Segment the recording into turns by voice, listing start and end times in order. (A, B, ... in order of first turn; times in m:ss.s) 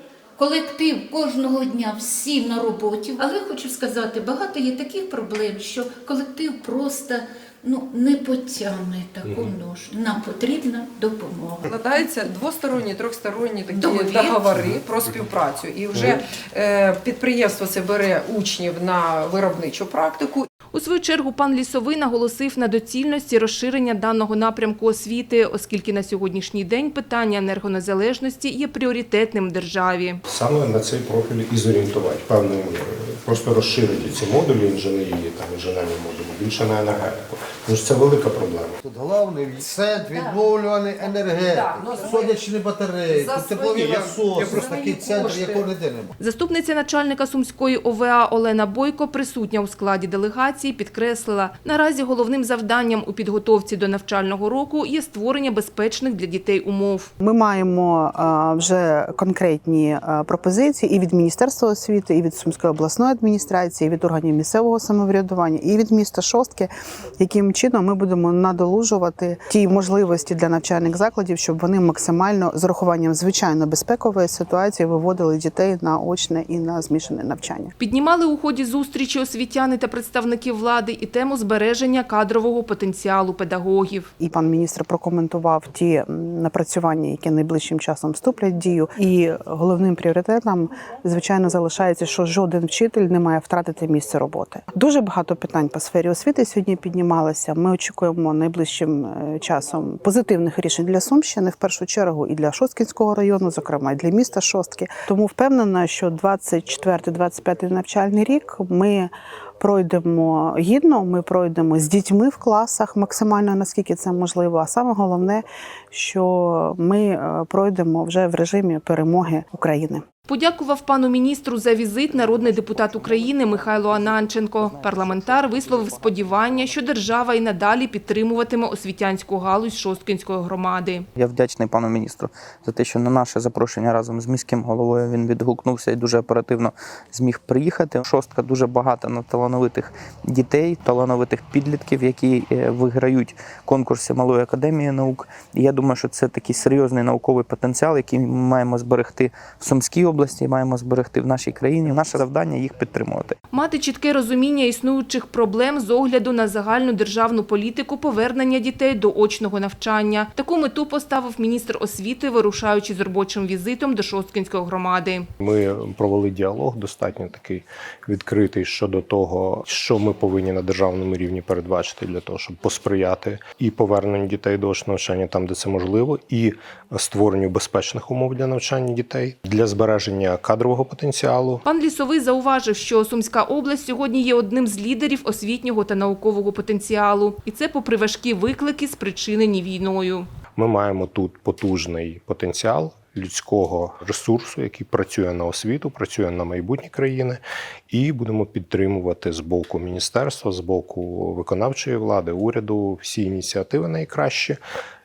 0:00.4-0:11.5 A
0:09.2-0:09.6 B
0:11.6-0:20.5 C
0:13.7-0:14.5 A
0:20.7-0:30.2 D
0:30.3-0:38.7 B
0:38.8-0:46.1 E
0:41.4-0:42.2 C
0:43.1-0:45.6 C
0:46.2-0:57.1 D
0:57.2-1:17.7 F
1:17.8-1:24.1 D
1:24.2-2:00.0 F
2:00.3-2:11.0 D
2:02.1-2:06.8 G
2:11.2-2:33.4 G
2:33.5-2:45.3 D
2:45.4-3:01.6 B
3:01.6-3:10.3 D
3:10.6-3:24.6 B